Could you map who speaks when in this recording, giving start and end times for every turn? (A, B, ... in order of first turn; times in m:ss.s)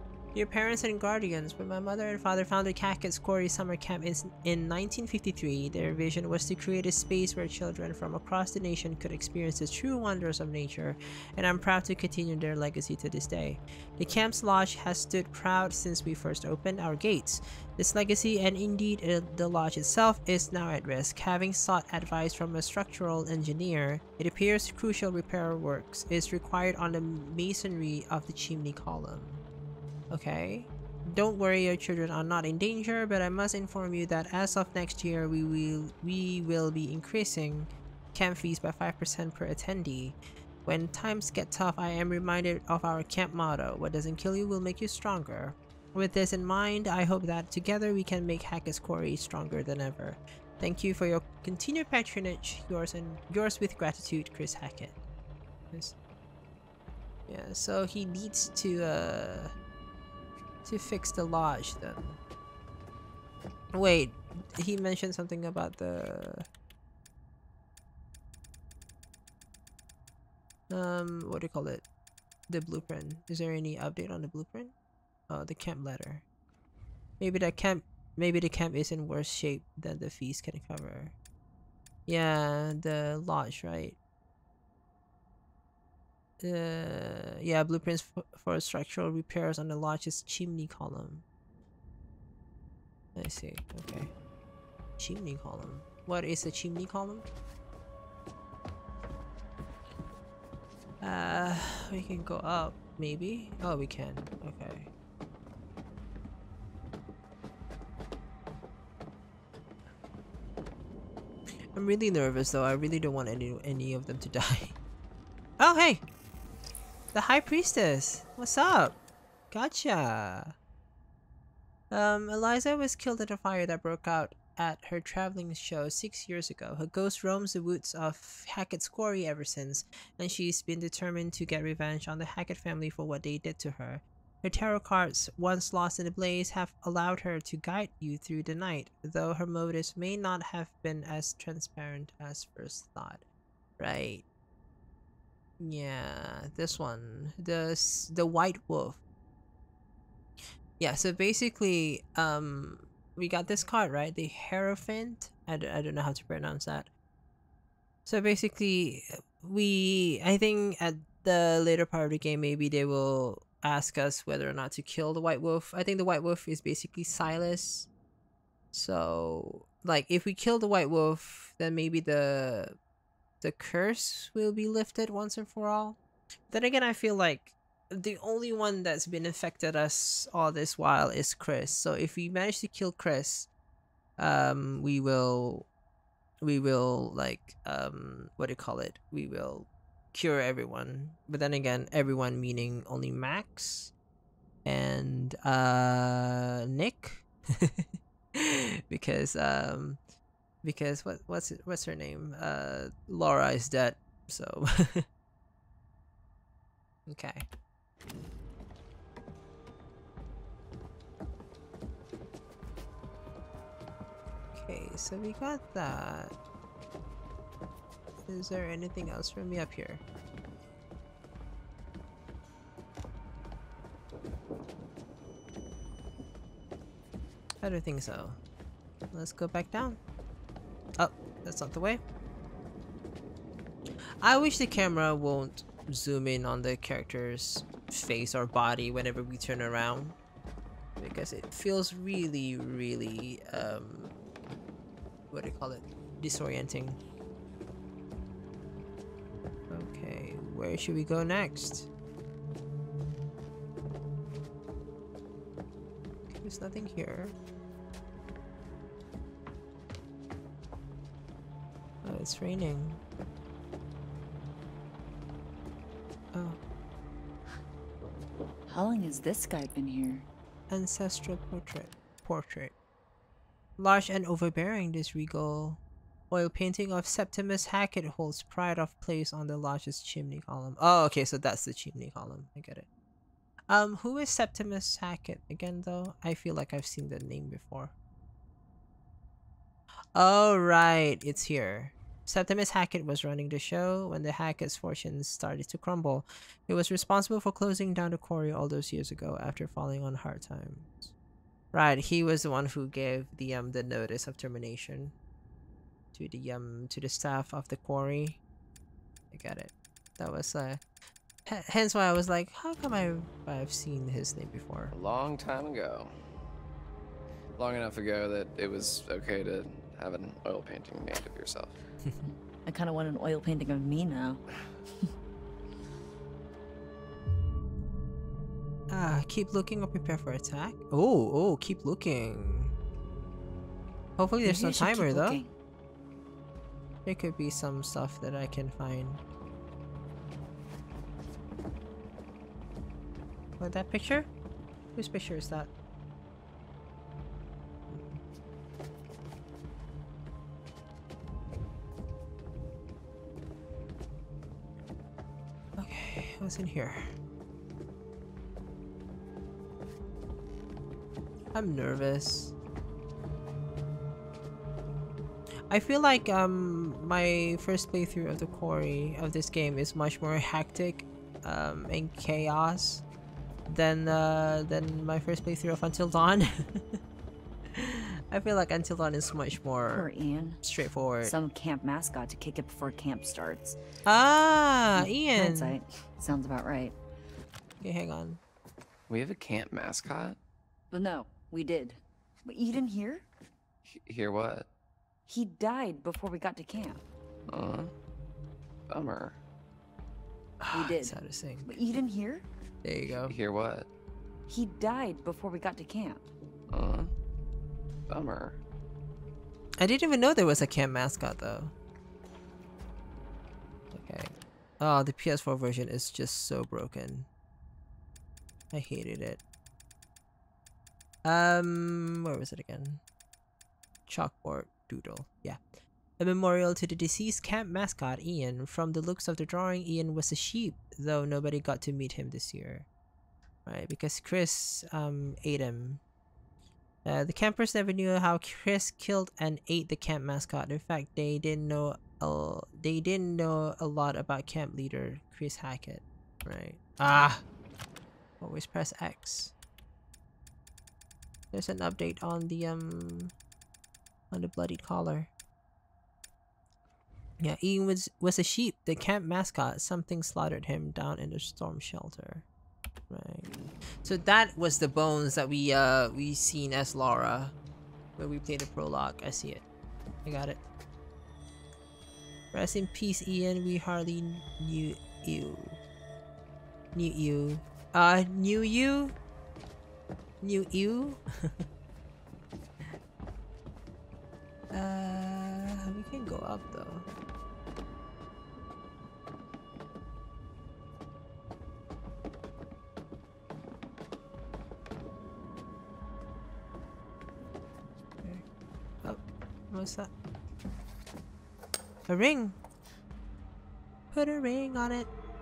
0:00.3-0:29.4 A
0:30.1-0:54.9 A
0:57.3-0:59.5 A
1:00.6-1:02.2 A
1:03.7-1:06.5 A
1:10.7-1:11.8 A
1:12.5-1:14.7 A
1:15.3-1:16.2 A
1:17.2-1:21.1 A
1:22.1-1:24.0 A
1:26.4-1:31.2 A
1:33.1-1:34.1 A
1:35.0-1:37.2 A
1:41.0-1:44.9 A
1:51.7-1:54.7 A
1:55.6-1:56.0 A
1:57.1-1:59.0 A
1:59.5-2:00.5 A
2:01.9-2:23.2 A
2:23.8-2:24.2 A
2:25.6-2:29.0 A
2:30.8-2:36.9 A
2:38.0-2:47.9 A
2:48.7-2:52.8 A
2:53.4-2:56.0 A
2:56.5-3:03.5 A
3:04.2-3:05.7 A
3:06.4-3:13.9 A
3:14.6-3:20.0 A
3:20.6-3:25.0 A
3:27.1-3:27.4 A
3:34.5-3:36.3 A
3:38.3-3:40.0 A
3:47.6-3:48.4 A
3:49.1-3:50.0 A
3:51.0-3:52.0 A
3:54.2-4:00.2 A
4:01.0-4:04.2 A
4:05.3-4:07.0 A
4:09.7-4:11.9 A
4:16.3-4:17.3 A
4:22.0-4:23.0 A
4:26.3-4:26.6 A
4:28.7-4:30.2 B
4:30.7-4:32.7 A
4:33.8-4:35.8 A
4:36.3-4:42.9 A
4:43.7-4:47.9 A
4:50.1-5:01.1 A
5:01.7-5:05.1 A
5:06.1-5:08.4 A
5:09.3-5:10.8 A
5:11.4-5:14.9 A
5:14.9-5:16.1 C
5:17.6-5:21.8 C
5:22.6-5:24.4 B
5:28.9-5:32.7 A
5:34.2-5:35.4 A
5:34.4-5:35.5 B
5:37.0-5:39.2 A
5:43.6-5:44.3 A
5:45.0-5:45.7 A
5:47.9-5:48.2 A
5:55.8-5:57.1 A
6:01.5-6:02.5 A
6:05.7-6:13.0 A
6:13.7-6:17.0 A
6:17.7-6:20.1 A
6:19.9-6:20.6 B
6:20.6-6:21.3 A
6:21.2-6:23.8 B
6:24.0-6:25.8 A
6:25.0-6:26.9 B
6:27.8-6:28.4 A
6:29.1-6:30.4 C
6:30.9-6:33.2 B
6:33.8-6:34.7 C
6:35.3-6:37.0 B
6:37.5-6:37.9 C
6:38.9-6:39.4 C
6:40.6-6:41.7 A
6:40.7-6:42.4 B
6:42.8-6:43.3 A
6:43.2-6:43.9 C
6:44.5-6:46.2 B
6:46.7-6:47.1 C
6:48.1-6:48.6 C
6:49.8-6:51.7 A
6:53.9-6:57.3 A
6:58.7-6:59.4 A
7:01.2-7:03.0 A
7:04.1-7:05.6 A
7:06.2-7:12.9 A
7:13.6-7:16.0 A
7:17.0-7:27.4 A
7:28.4-7:29.5 A
7:31.5-7:33.3 A
7:34.3-7:35.3 A
7:37.4-7:42.4 A
7:43.1-7:43.5 A
7:44.0-7:47.5 A
7:48.2-7:49.6 A
7:50.2-7:50.6 A
7:52.5-7:55.8 A
7:56.9-7:59.1 A
8:00.4-8:01.5 A
8:04.7-8:07.0 A
8:19.0-8:20.1 A
8:22.1-8:22.6 A
8:24.1-8:25.1 A